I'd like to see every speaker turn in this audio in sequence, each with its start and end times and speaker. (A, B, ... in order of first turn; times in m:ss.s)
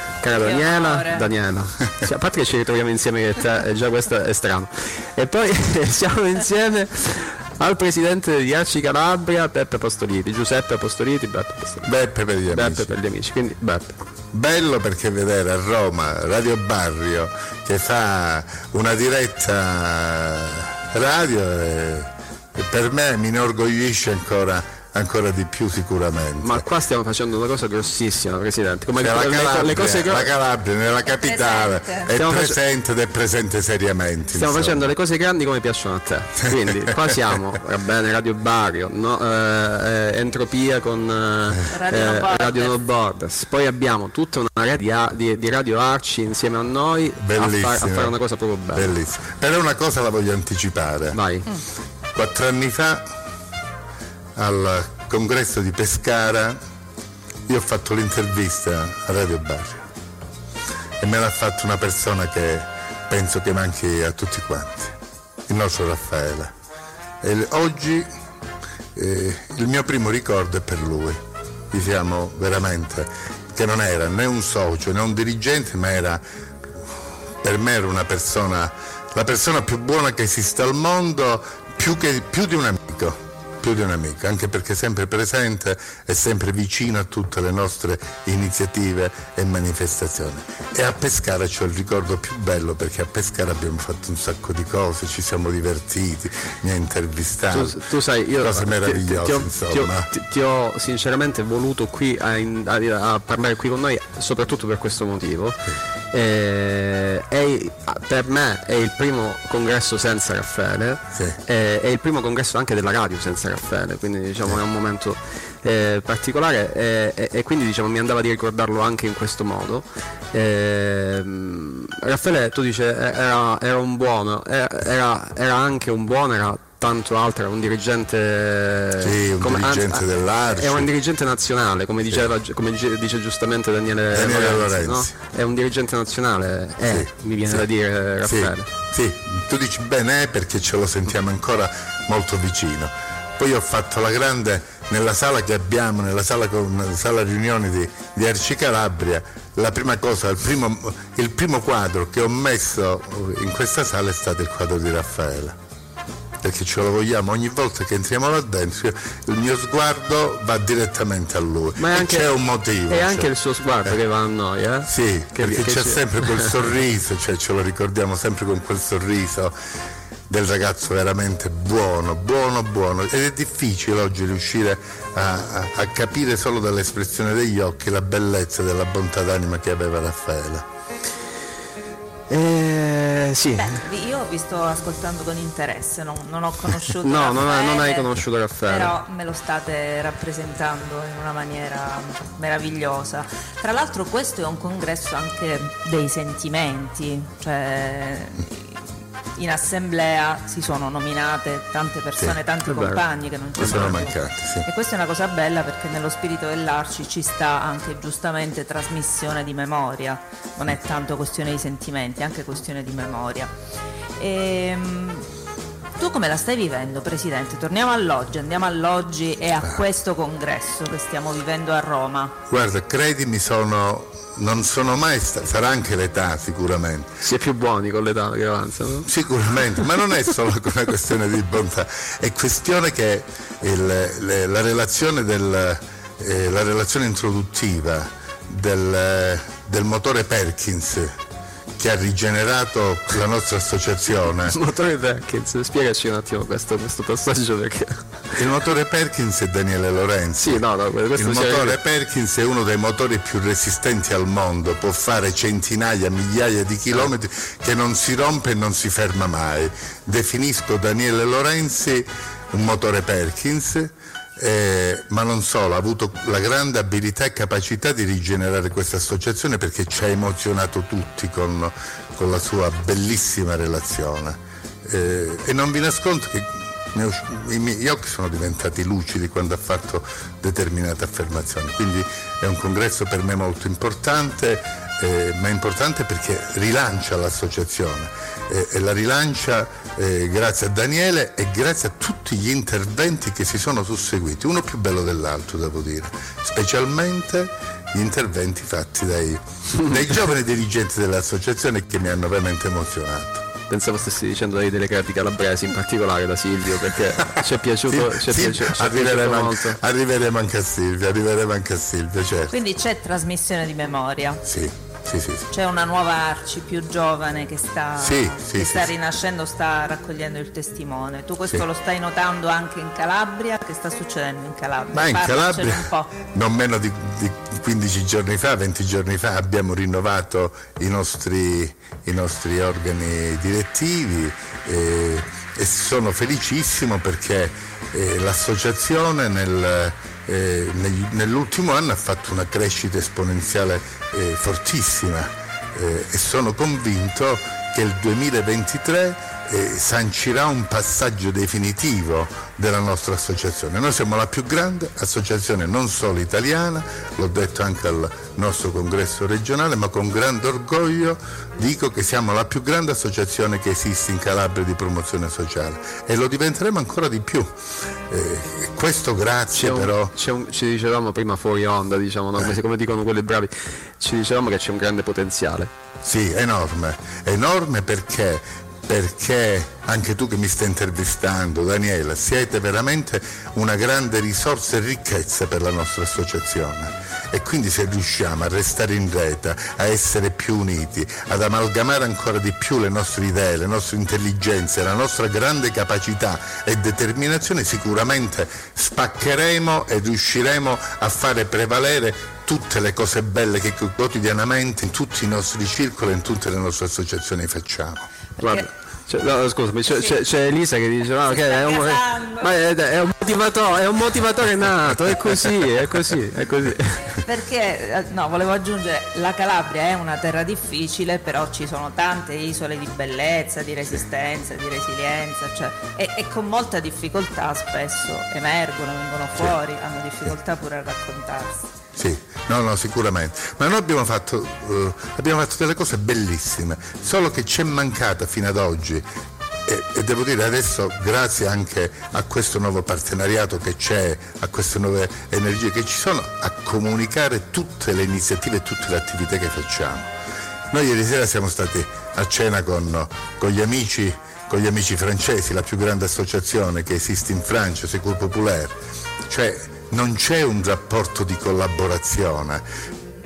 0:00.2-0:11.9 A
0:00.4-0:01.3 B
0:11.8-0:12.9 C
0:12.5-0:13.9 A
0:14.3-0:26.6 C
0:26.4-0:30.3 A
0:29.0-0:34.8 C
0:31.0-0:32.1 B
0:32.1-0:32.6 A
0:34.3-0:48.9 A
0:41.7-0:42.8 B
0:47.2-0:48.2 C
0:48.7-0:51.2 C
0:51.1-0:51.5 A
0:52.1-0:53.0 C
0:54.4-0:56.6 C
0:57.5-0:59.8 C
1:01.0-1:04.9 C
1:05.5-1:06.5 C
1:07.2-1:08.0 C
1:08.9-1:11.2 C
1:11.7-1:16.2 C
1:17.4-1:37.8 C
1:37.5-1:45.6 A
1:38.4-1:40.1 C
1:46.1-2:18.7 A
2:09.0-2:10.9 C
2:14.1-2:15.1 C
2:16.8-2:17.6 C
2:18.2-2:35.6 C
2:36.4-2:43.3 C
2:41.8-2:46.5 A
2:44.8-2:49.5 C
2:50.3-3:00.6 C
3:02.3-3:03.8 A
3:03.6-3:18.8 B
3:07.0-3:08.9 A
3:19.4-3:33.5 B
3:22.6-3:23.0 A
3:23.6-3:23.9 A
3:23.6-3:24.6 C
3:34.2-3:35.2 B
3:36.0-3:42.3 B
3:42.5-3:47.1 C
3:47.2-3:49.1 A
3:49.0-4:01.1 C
4:01.8-4:04.6 C
4:04.4-4:08.4 A
4:08.4-4:10.6 C
4:10.4-4:11.8 A
4:11.1-5:03.4 C
5:03.7-5:09.8 A
5:07.9-5:12.5 C
5:12.5-5:14.4 B
5:14.4-5:15.5 C
5:15.5-5:26.1 B
5:18.0-5:18.9 C
5:24.9-6:07.5 C
6:08.1-6:10.1 C
6:09.5-6:15.7 A
6:16.0-6:48.1 C
6:48.4-6:57.1 A
6:48.4-6:48.7 B
6:49.9-6:50.2 B
6:51.2-6:52.5 B
6:57.2-7:11.7 B
7:12.0-7:19.0 C
7:19.6-7:30.1 C
7:30.7-7:38.8 C
7:39.3-7:42.6 C